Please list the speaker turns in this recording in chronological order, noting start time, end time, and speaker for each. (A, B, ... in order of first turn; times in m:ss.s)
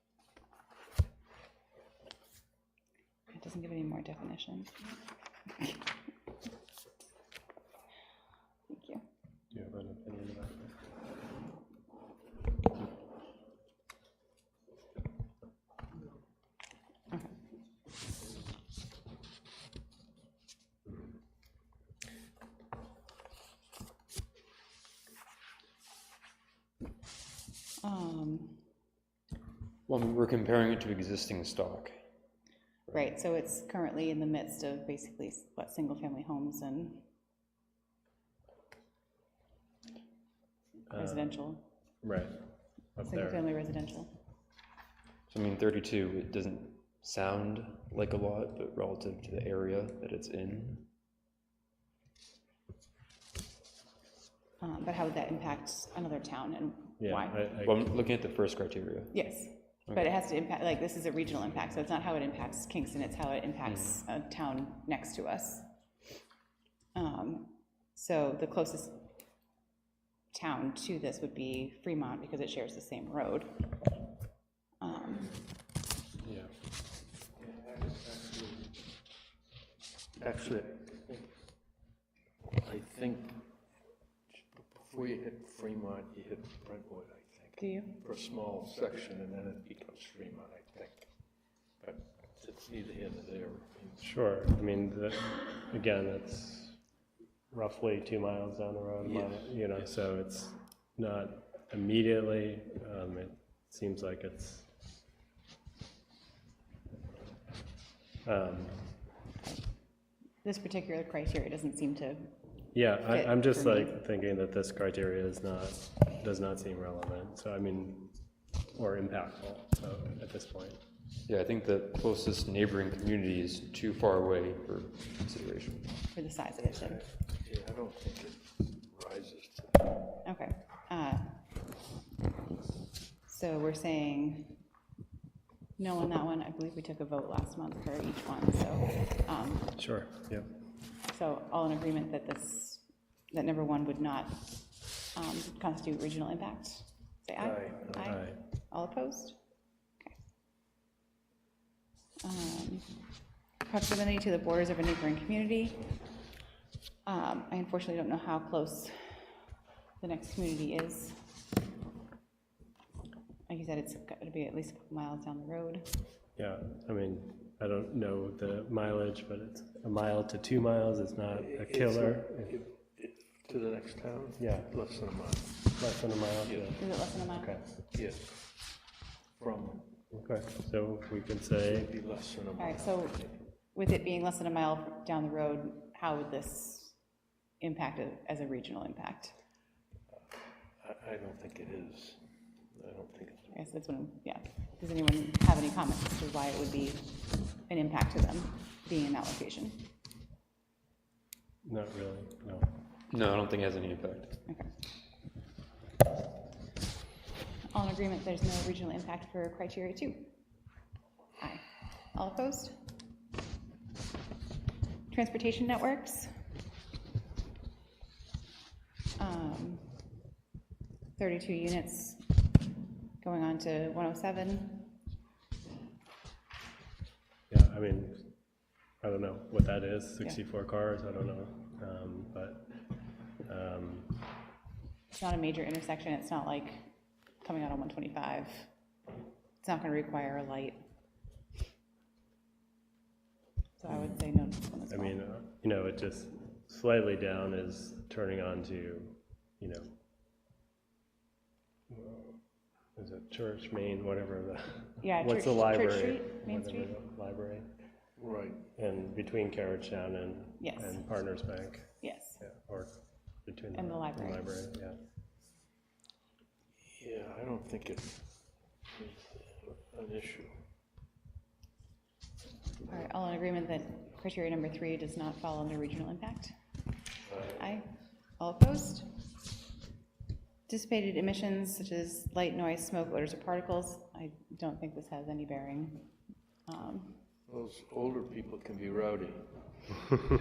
0:03.3-0:04.9 A
0:08.7-0:09.0 A
0:09.5-0:10.7 B
0:27.8-0:28.6 A
0:29.9-0:32.0 C
0:32.9-0:37.0 A
0:40.9-0:41.4 B
0:40.9-0:41.7 A
0:42.0-0:42.4 B
0:43.0-0:43.4 B
0:43.0-0:44.1 A
0:45.3-0:50.9 C
0:54.6-0:57.5 A
0:57.0-0:57.8 B
0:57.6-0:59.2 C
0:59.1-1:05.7 A
1:03.7-1:04.0 C
1:06.9-1:09.1 A
1:10.3-1:13.7 A
1:14.8-1:15.4 A
1:16.2-1:16.5 B
1:17.6-1:18.6 D
1:20.2-1:21.2 D
1:22.5-1:23.5 D
1:24.3-1:31.1 D
1:27.6-1:28.0 A
1:31.8-1:34.0 D
1:34.0-1:36.8 B
1:37.5-1:44.7 B
1:39.1-1:39.5 D
1:48.2-1:48.9 B
1:50.4-1:52.4 A
1:52.7-1:58.2 B
1:53.0-1:54.0 A
1:58.7-2:00.8 B
2:01.2-2:06.0 C
2:06.1-2:07.1 A
2:07.4-2:10.0 D
2:10.2-2:11.4 A
2:13.3-2:14.6 A
2:15.8-2:19.8 A
2:19.8-2:20.5 B
2:21.0-2:24.6 A
2:25.1-2:29.4 A
2:27.4-2:28.0 D
2:28.0-2:28.4 B
2:32.2-2:32.9 A
2:33.6-2:35.9 A
2:37.0-2:39.2 A
2:40.0-2:41.3 A
2:43.5-2:45.9 A
2:46.4-2:52.6 B
2:51.4-2:55.7 D
2:54.4-2:54.7 B
2:55.8-2:56.8 B
2:56.5-2:56.8 D
2:56.8-2:57.6 A
2:57.3-2:57.7 B
2:57.9-2:58.5 D
2:59.4-3:00.0 D
3:00.1-3:01.9 B
3:01.7-3:03.4 D
3:02.6-3:07.0 A
3:07.6-3:09.4 A
3:10.8-3:12.2 D
3:12.7-3:13.6 D
3:13.5-3:19.9 A
3:21.6-3:22.7 B
3:23.1-3:24.4 C
3:27.7-3:30.3 A
3:31.4-3:32.8 A
3:35.1-3:36.4 A
3:39.2-3:40.0 A
3:41.2-3:42.3 A
3:43.2-3:44.9 A
3:47.5-3:48.3 B
3:49.0-3:52.8 B
3:53.4-3:54.2 B
3:55.1-3:56.9 A
3:57.4-3:58.7 A
3:59.6-4:00.8 A
4:03.8-4:05.1 A
4:04.9-4:09.9 B
4:11.9-4:12.4 B
4:13.0-4:17.7 B
4:15.0-4:16.9 A
4:18.2-4:18.7 D
4:18.7-4:25.0 B
4:20.6-4:21.0 A
4:22.0-4:22.4 A
4:23.7-4:24.4 A
4:26.8-4:28.3 D
4:28.9-4:30.6 D
4:32.8-4:36.5 A
4:37.3-4:37.6 D
4:37.5-4:39.2 A
4:40.7-4:46.1 A
4:46.6-4:47.2 A
4:47.5-4:49.8 D